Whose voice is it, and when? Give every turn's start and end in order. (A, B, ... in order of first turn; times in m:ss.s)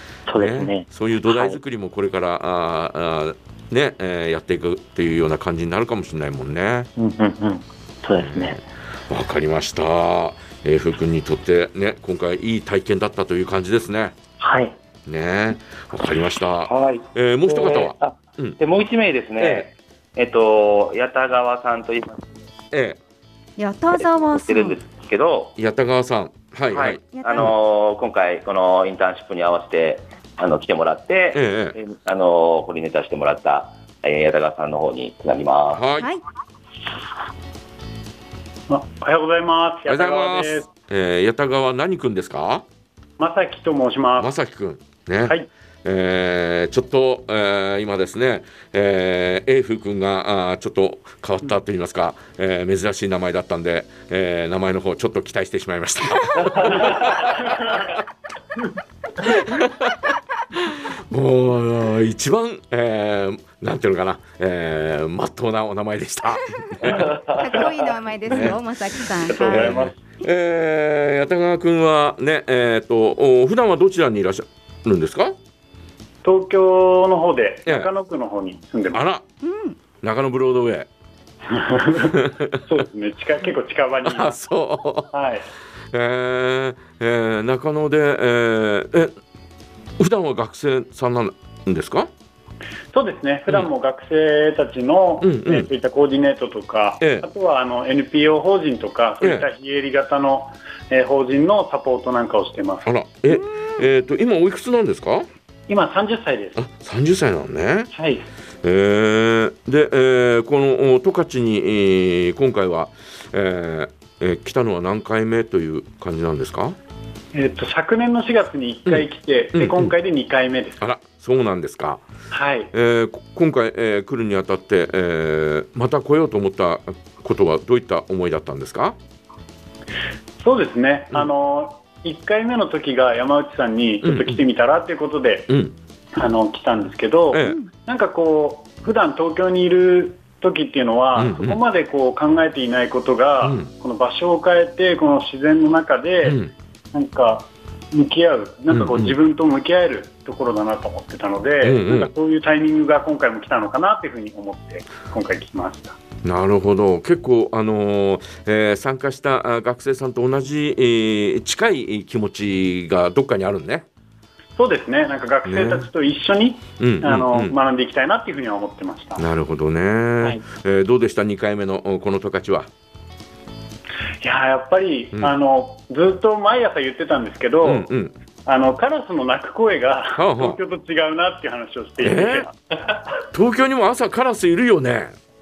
0:00.3-0:01.6 A
0:00.3-0:06.9 B
0:07.0-0:08.6 A
0:08.2-0:14.1 B
0:14.4-0:14.8 A
0:15.1-0:18.6 B
0:16.7-0:22.2 C
0:19.4-0:19.7 B
0:22.7-0:23.0 B
0:23.6-0:24.8 D
0:23.9-0:25.5 C
0:25.6-0:27.5 B
0:26.7-0:35.8 C
0:27.1-0:27.5 D
0:31.3-0:31.8 B
0:35.7-0:36.1 B
0:38.7-0:40.7 E
0:39.9-0:42.6 B
0:43.2-0:44.3 E
0:44.2-0:56.9 B
0:56.4-0:56.9 C
0:59.2-1:00.0 B
1:00.6-1:07.0 B
1:06.8-1:07.9 C
1:06.9-1:09.8 D
1:08.3-1:08.6 B
1:09.2-1:10.0 E
1:09.4-1:15.4 B
1:16.2-1:19.0 E
1:18.9-1:19.2 B
1:19.4-1:19.8 D
1:20.0-1:20.9 B
1:21.5-1:24.3 E
1:24.0-1:25.1 B
1:25.1-1:25.4 E
1:25.9-1:29.1 B
1:30.0-1:32.1 B
1:32.9-1:42.9 E
1:35.2-1:35.7 B
1:37.0-1:37.3 B
1:39.2-1:39.5 B
1:42.8-1:45.3 B
1:45.7-1:46.6 E
1:46.6-1:47.9 B
1:47.9-1:48.3 E
1:48.6-1:56.8 B
1:57.3-2:00.8 E
1:58.9-1:59.9 B
2:00.8-2:02.0 B
2:02.3-2:02.7 E
2:02.7-2:09.0 B
2:10.4-2:15.5 E
2:14.0-2:14.4 B
2:15.5-2:15.8 B
2:16.2-2:26.4 E
2:17.4-2:17.7 D
2:21.2-2:21.6 B
2:23.4-2:23.7 B
2:26.2-2:26.5 B
2:26.9-2:36.0 E
2:28.7-2:29.2 B
2:31.6-2:32.1 B
2:36.2-2:43.8 B
2:44.6-2:49.2 E
2:45.4-2:45.9 B
2:46.8-2:47.6 B
2:49.2-2:52.7 B
2:54.2-2:57.9 E
2:57.6-2:58.1 B
2:58.5-3:03.0 E
3:00.2-3:00.6 B
3:02.0-3:02.5 B
3:03.3-3:05.2 B